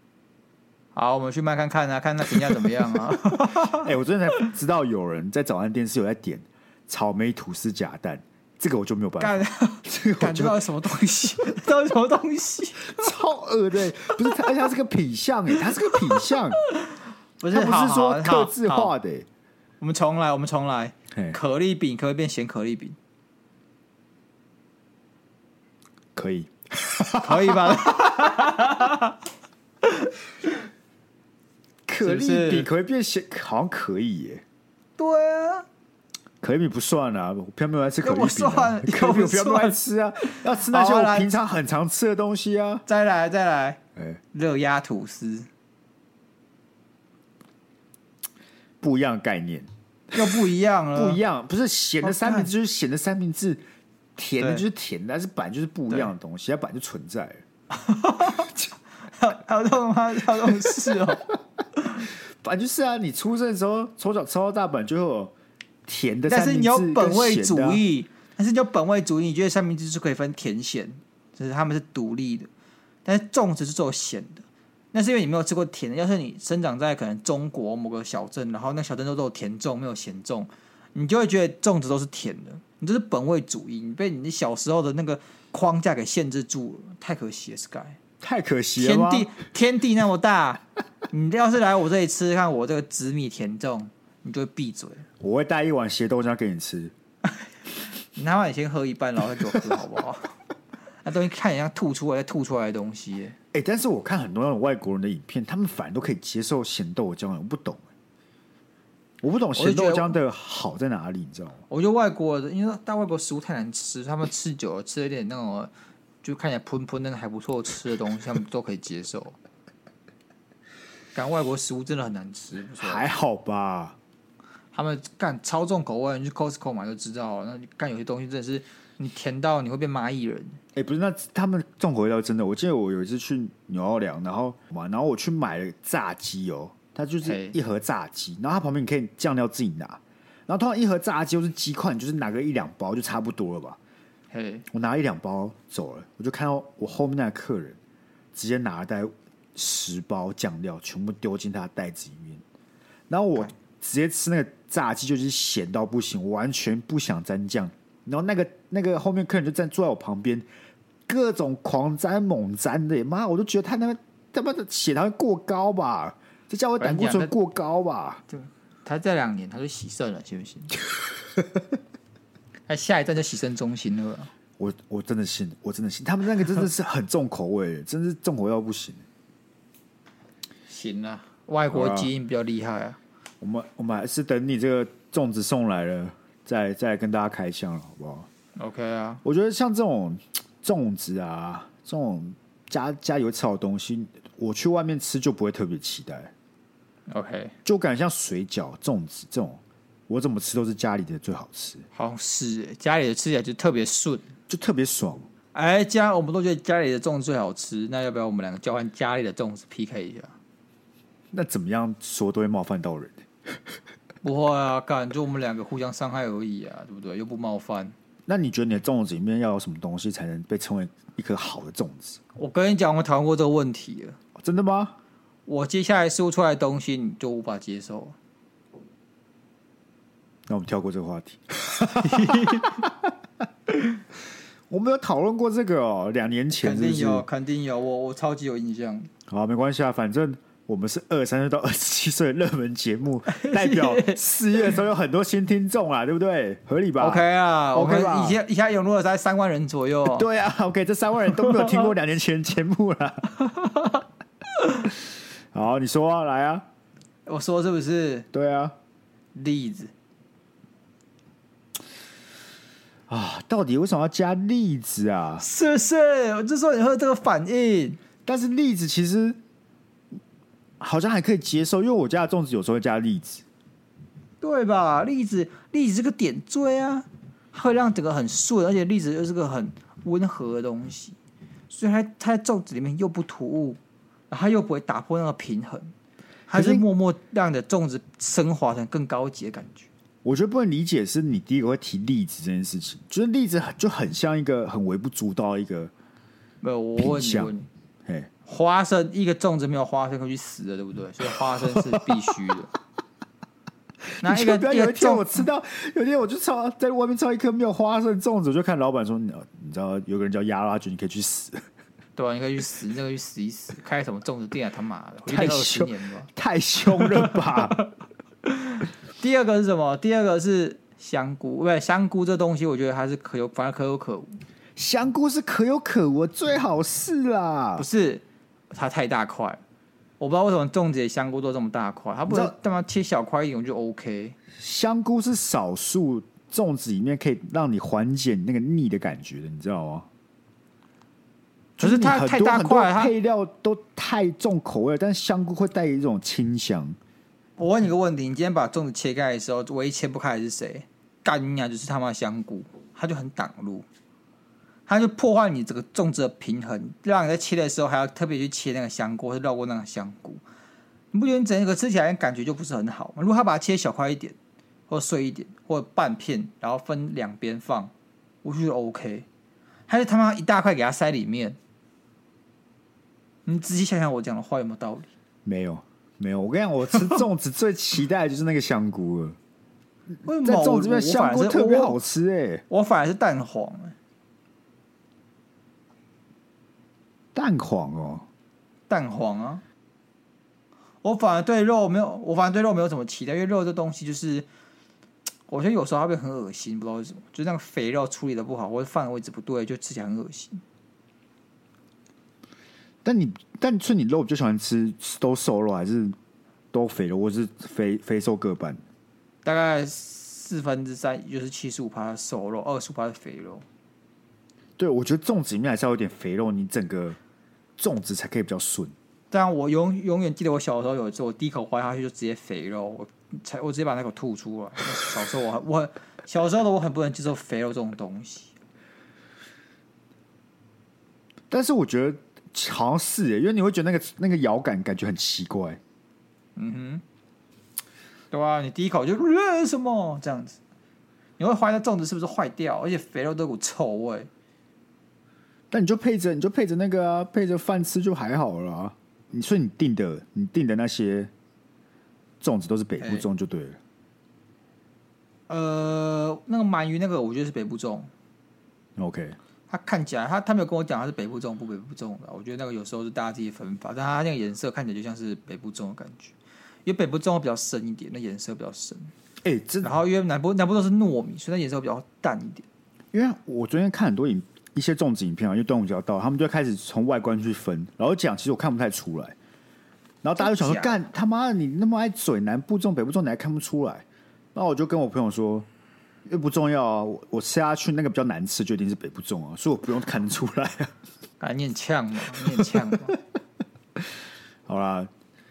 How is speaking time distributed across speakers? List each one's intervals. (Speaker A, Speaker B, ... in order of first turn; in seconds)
Speaker A: 0.9-3.9, 9.2-13.1, 16.1-18.9, 19.8-22.9, 27.2-29.1, 32.0-32.7, 35.0-35.7, 38.0-41.3, 42.9-43.8, 44.3-45.5, 50.1-51.2, 52.0-52.5, 54.4-54.6, 57.7-58.5, 59.1-61.3, 66.3-72.5, 73.0-88.0, 88.8-95.1, 98.1-100.3, 101.0-103.4, 109.5-110.2, 111.7-115.7, 116.2-119.4, 121.1-123.1, 124.7-130.6, 137.2-137.6, 144.3-144.7, 166.8-167.3, 168.3-170.7, 172.7-174.3, 180.7-183.0, 188.6-189.2, 197.1-197.5, 201.9-204.3, 205.5-210.3, 214.2-217.9, 222.4-224.2, 225.5-228.1, 232.0-232.8, 236.5-239.1, 243.3-244.7, 247.0-250.3, 253.5-254.0, 257.3-258.3, 259.3-259.9, 265.4-268.0, 274.4-281.1, 281.7-283.8, 284.3-285.9, 286.5-289.9, 296.6-297.7, 298.4-302.7, 304.2-305.4, 312.1-316.3, 316.9-317.8, 318.4-324.4, 327.8-329.6, 330.2-334.4, 341.8-343.1, 347.6-353.9, 354.9-360.4, 361.1-364.4, 364.9-367.9, 368.4-369.3, 369.9-371.6, 373.4-375.1, 380.2-382.0, 382.7-383.9, 388.9-389.6, 391.0-394.5, 395.5-400.6, 409.4-413.6, 419.3-428.5, 436.6-437.0, 438.3-440.6, 441.4-444.3, 453.0-453.3, 455.5-458.1, 459.7-469.1, 469.8-472.6, 480.4-481.0, 491.4-493.1
Speaker B: 3.6-10.6, 12.8-16.6, 17.5-19.3, 21.1-21.4, 26.1-28.4, 31.9-34.4, 36.4-42.8, 48.8-50.4, 50.9-53.6, 54.2-57.4, 62.4-65.3, 65.9-67.8, 88.2-89.3, 95.2-96.9, 103.5-107.8, 109.2-111.6, 122.8-124.0, 130.7-143.8, 144.7-147.8, 148.3-152.4, 153.1-160.4, 161.1-168.2, 174.6-179.1, 181.7-182.1, 183.4-188.3, 189.2-196.3, 197.6-201.9, 204.5-205.3, 211.3-213.6, 218.3-222.2, 224.4-224.9, 230.5-233.1, 234.7-237.2, 239.3-248.4, 250.1-253.3, 255.5-256.6, 258.3-258.7, 263.1-265.4, 268.3-269.4, 270.8-273.4, 286.5-286.9, 290.2-295.9, 297.0-297.5, 301.7-302.1, 304.2-311.6, 315.3-317.8, 324.8-327.9, 332.3-332.5, 334.6-340.1, 341.8-347.0, 375.4-379.4, 380.4-382.6, 387.4-388.3, 403.0-406.1, 406.7-408.8, 414.8-417.2, 417.8-418.9, 431.5-435.8, 445.7-451.3, 452.4-453.8, 459.0-459.4, 469.4-469.9, 473.1-479.4, 480.2-485.7, 486.2-490.9, 492.4-492.8, 494.7-495.1